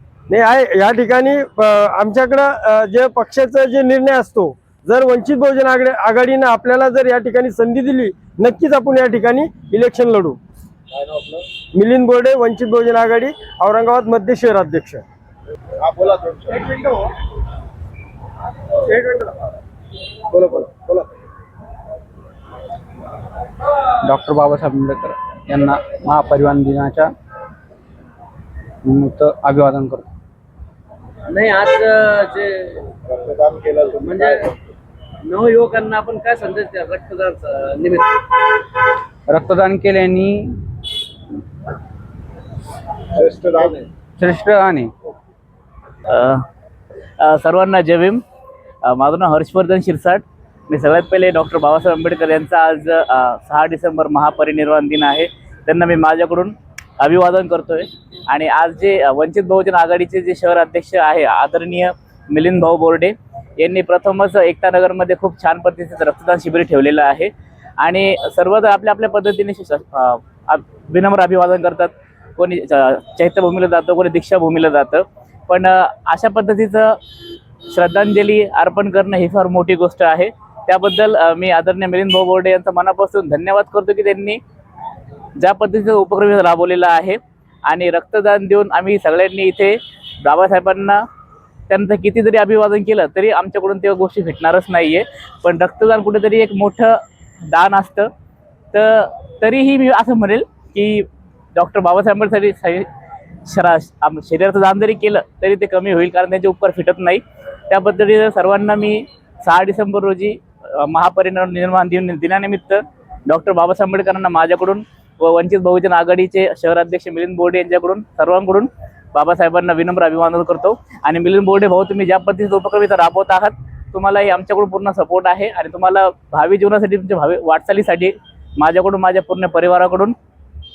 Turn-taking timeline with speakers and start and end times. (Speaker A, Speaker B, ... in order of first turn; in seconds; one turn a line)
Speaker A: 0.3-10.4
Speaker B: 10.9-11.4
Speaker A: 11.8-15.0
Speaker B: 15.8-16.8
Speaker B: 20.4-21.0
Speaker C: 24.0-27.1
Speaker C: 28.8-30.1
Speaker D: 31.3-32.7
Speaker B: 33.1-34.5
Speaker D: 35.2-38.1
Speaker C: 39.3-40.6
Speaker B: 43.1-43.9
Speaker C: 44.2-44.9
Speaker E: 46.1-46.5
Speaker E: 47.2-48.2
Speaker E: 48.8-77.0
Speaker E: 77.7-84.4
Speaker E: 85.4-91.0
Speaker E: 91.7-98.1
Speaker E: 98.7-102.9
Speaker E: 103.5-130.2